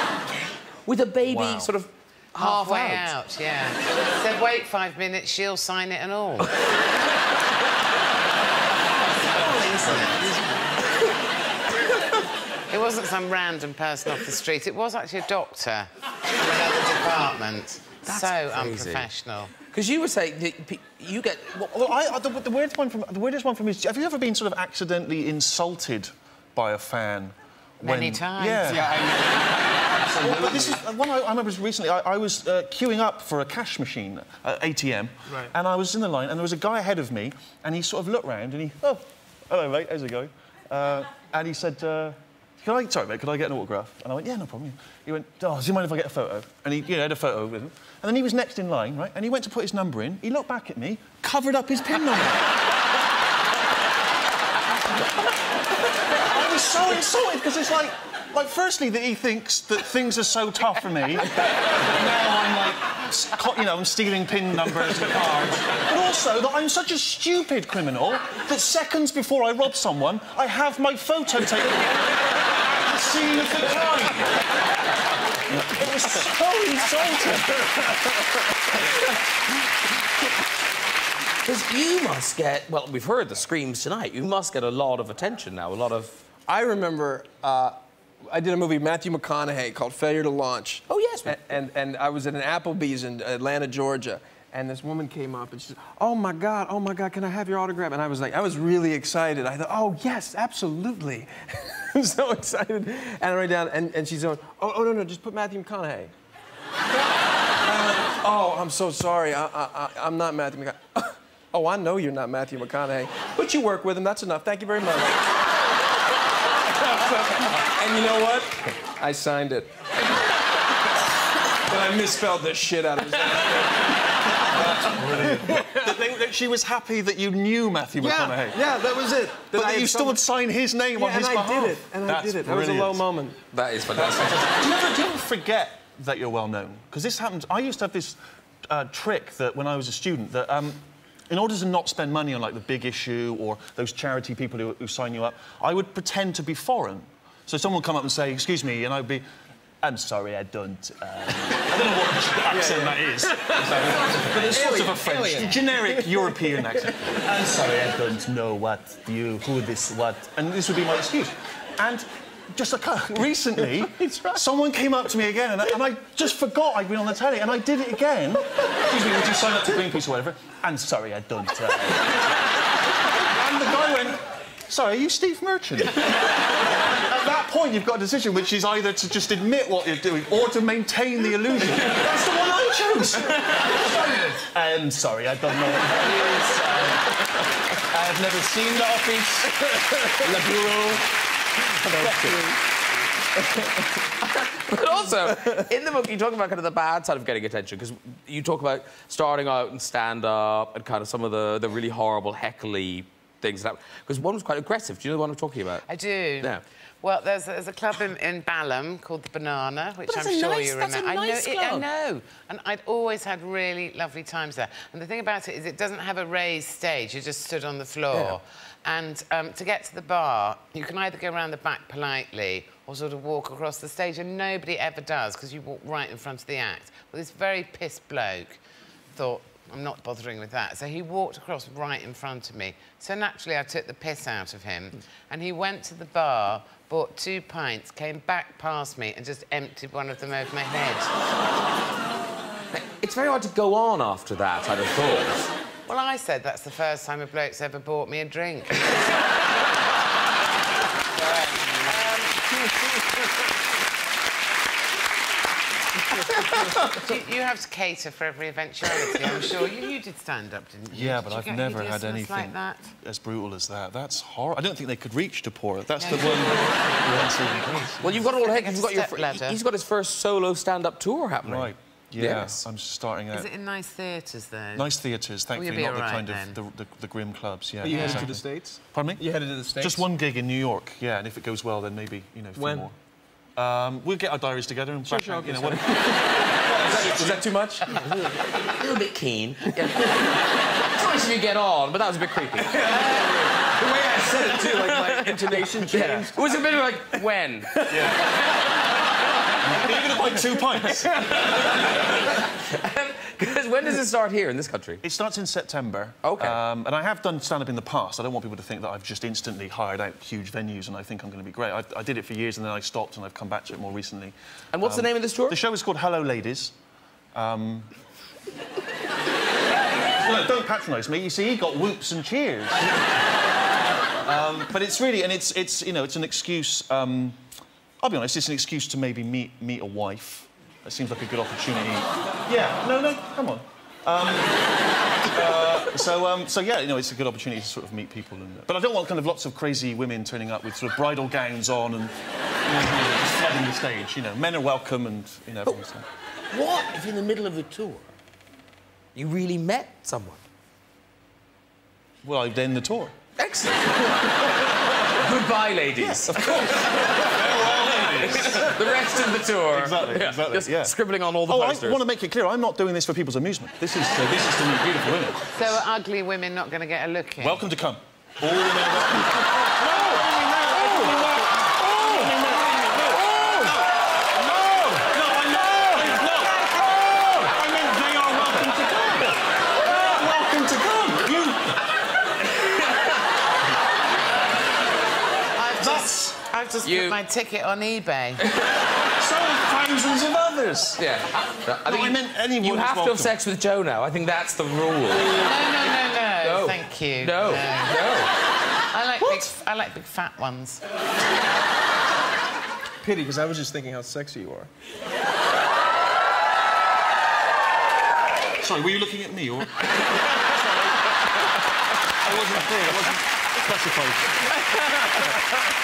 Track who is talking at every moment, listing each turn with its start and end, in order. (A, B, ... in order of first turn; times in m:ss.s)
0:00.8-0:03.1 A
0:01.2-0:01.7 B
0:02.4-0:06.5 C
0:09.2-0:10.5 C
0:12.7-0:19.5 C
0:18.0-0:19.1 A
0:19.7-0:21.9 A
0:21.7-0:29.0 B
0:27.8-0:29.1 C
0:28.7-0:29.5 D
0:30.0-0:30.7 D
0:30.0-0:52.6 B
0:35.3-0:35.5 D
0:56.0-1:14.3 B
1:15.5-1:17.6 B
1:21.4-1:26.2 A
1:26.5-1:46.1 D
1:30.9-1:31.4 A
1:47.6-1:55.2 D
1:56.8-1:59.9 D
2:01.7-2:06.0 D
2:04.5-2:08.6 B
2:08.0-2:10.2 D
2:09.5-2:13.0 B
2:10.9-2:13.4 D
2:13.5-2:14.5 A
2:13.9-2:29.2 B
2:29.8-2:52.5 B
2:32.5-2:36.8 D
2:43.6-2:44.4 D
2:53.2-3:06.7 B
3:07.7-3:09.6 B
3:10.1-3:11.0 D
3:11.8-3:12.5 D
3:12.0-3:12.4 B
3:14.2-3:25.8 A
3:25.9-3:48.6 C
3:30.1-3:31.9 A
3:38.1-3:38.4 A
3:49.1-4:01.1 C
4:02.7-4:05.5 A
4:05.9-4:09.0 C
4:11.7-4:12.5 C
4:16.6-4:22.8 C
4:20.9-4:28.0 B
4:26.0-4:29.6 C
4:28.0-4:32.6 A
4:31.4-4:33.5 B
4:33.3-4:34.9 C
4:34.7-4:43.0 B
4:35.5-4:36.6 C
4:37.8-4:40.0 D
4:37.9-4:38.3 C
4:42.6-4:42.8 D
4:43.6-4:47.4 B
4:45.0-4:47.9 D
4:47.9-4:53.2 A
4:52.7-4:57.2 D
4:54.5-4:57.9 A
4:57.8-4:58.1 D
4:57.9-4:58.3 B
4:59.6-5:01.1 B
5:01.4-5:05.0 A
5:05.0-5:16.7 B
5:06.2-5:06.6 A
5:14.7-5:15.6 A
5:17.3-5:17.9 B
5:20.2-5:22.8 B
5:24.2-5:27.4 B
5:28.0-5:34.6 B
5:35.2-5:42.1 B
5:42.6-5:46.0 B
5:46.5-5:48.1 A
5:49.1-5:50.4 A
5:52.2-5:53.1 B
5:53.4-5:54.5 A
5:55.1-5:57.1 A
5:56.0-5:59.0 B
5:58.2-6:02.0 A
5:59.7-6:05.6 B
6:05.5-6:07.6 C
6:07.4-6:13.8 B
6:11.9-6:12.4 A
6:13.1-6:13.8 A
6:14.4-6:21.8 B
6:22.6-6:23.0 A
6:25.6-6:28.4 C
6:25.8-6:26.4 B
6:26.8-6:27.2 A
6:28.4-6:28.8 A
6:29.2-6:31.0 B
6:31.0-6:35.3 A
6:31.8-6:33.3 B
6:35.2-6:38.0 C
6:36.4-6:38.3 A
6:38.9-6:40.8 C
6:43.0-6:44.7 D
6:48.6-6:49.8 B
6:52.2-6:54.4 B